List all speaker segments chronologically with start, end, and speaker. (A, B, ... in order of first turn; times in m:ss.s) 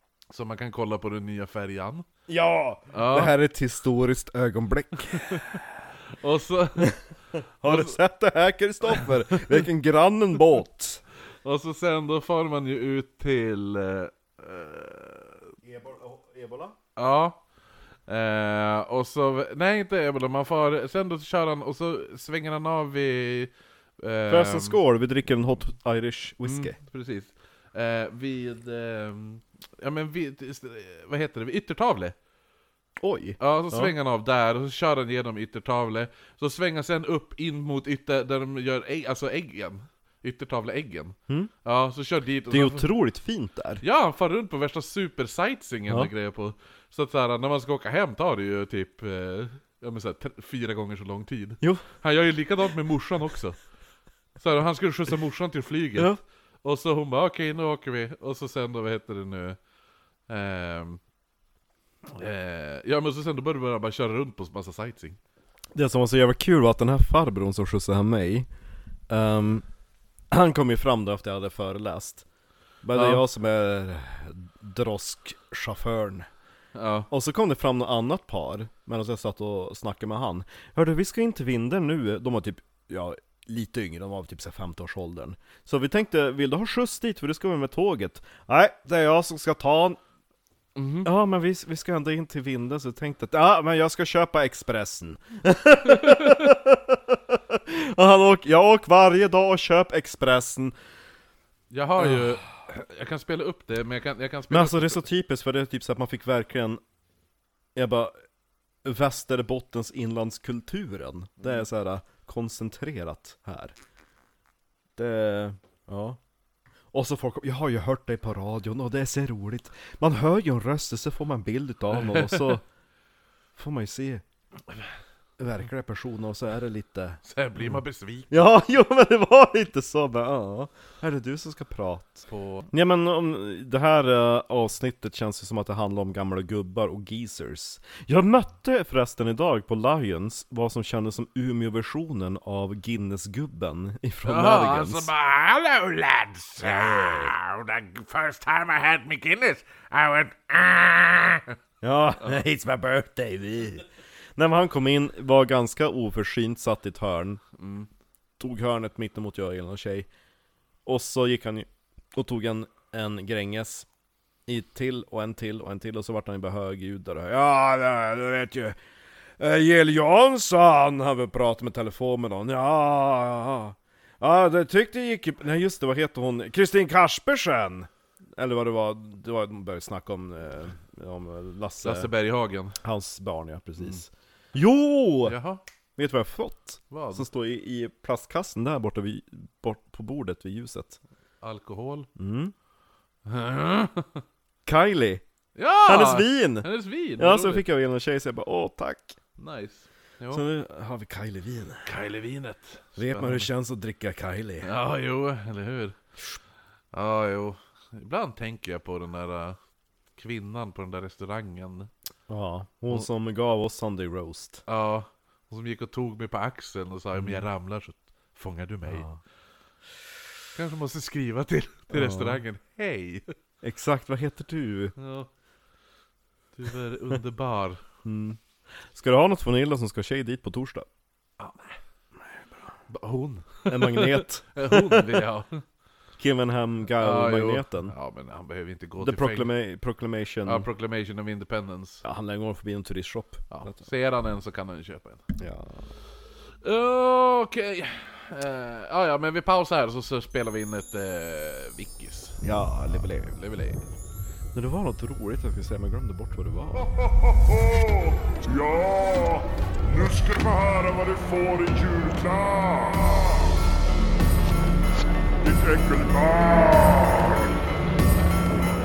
0:00.3-0:02.0 A
0:02.3-0:05.6 B
0:02.9-0:03.3 A
0:05.1-0:07.0 A
0:07.6-0:11.0 B
0:07.6-0:08.0 A
0:11.4-0:15.5 A
0:15.6-0:16.8 B
0:17.0-0:17.4 A
0:18.1-0:24.8 A
0:24.3-0:26.8 B
0:26.4-0:32.2 A
0:33.0-0:33.9 B
0:33.4-0:42.9 A
0:42.5-0:43.8 B
0:43.8-0:53.6 A
0:54.4-0:56.1 A
0:55.9-0:56.2 B
0:56.6-0:59.6 A
1:00.3-1:01.0 A
1:02.1-1:05.2 A
1:05.7-1:08.5 B
1:09.1-1:09.6 B
1:10.3-1:12.2 B
1:12.8-1:16.3 B
1:12.9-1:13.2 A
1:16.7-1:17.1 A
1:17.1-1:30.0 B
1:30.8-1:31.1 A
1:31.0-1:40.7 B
1:36.0-1:36.3 A
1:41.7-1:45.0 A
1:42.0-1:42.3 B
1:44.5-1:46.8 B
1:47.7-1:48.1 B
1:48.8-1:53.7 B
1:55.0-1:56.2 B
1:56.9-2:02.6 B
2:02.0-2:02.5 A
2:03.6-2:04.2 B
2:05.4-2:07.6 B
2:07.2-2:08.5 A
2:08.3-2:25.1 B
2:12.3-2:12.7 A
2:24.2-2:31.5 A
2:26.6-2:27.3 B
2:31.8-2:32.5 B
2:32.2-2:33.8 A
2:34.4-2:37.4 B
2:37.6-2:37.9 A
2:38.4-2:40.1 B
2:40.8-2:43.9 B
2:44.5-2:48.8 B
2:49.4-3:02.1 B
3:01.8-3:02.8 A
3:02.8-3:05.4 B
3:05.2-3:05.6 A
3:06.0-3:11.0 B
3:06.9-3:07.2 A
3:11.4-3:12.1 A
3:12.2-3:12.5 B
3:13.2-3:14.2 A
3:14.6-3:15.2 B
3:15.6-3:17.6 A
3:15.8-3:19.2 B
3:19.4-3:20.4 A
3:20.3-3:21.9 B
3:21.8-3:23.5 A
3:23.0-3:24.7 B
3:24.6-3:26.0 A
3:26.9-3:29.6 A
3:30.2-3:31.9 A
3:32.3-3:34.6 B
3:34.7-3:39.1 A
3:37.2-3:37.4 B
3:38.9-3:39.2 B
3:40.5-3:43.2 A
3:41.9-3:42.4 B
3:43.6-3:44.9 B
3:45.0-3:45.3 A
3:46.5-3:47.8 A
3:48.0-3:48.4 B
3:48.9-3:50.9 B
3:51.4-3:51.8 A
3:52.9-3:55.6 A
3:53.6-3:55.2 B
3:56.2-3:57.9 B
3:56.9-3:59.5 A
3:59.0-4:00.7 B
4:00.4-4:02.0 A
4:02.0-4:03.8 B
4:03.5-4:05.3 A
4:05.4-4:05.9 B
4:06.6-4:13.8 A
4:12.4-4:13.4 B
4:14.5-4:16.9 B
4:17.5-4:23.5 C
4:25.4-4:27.6 C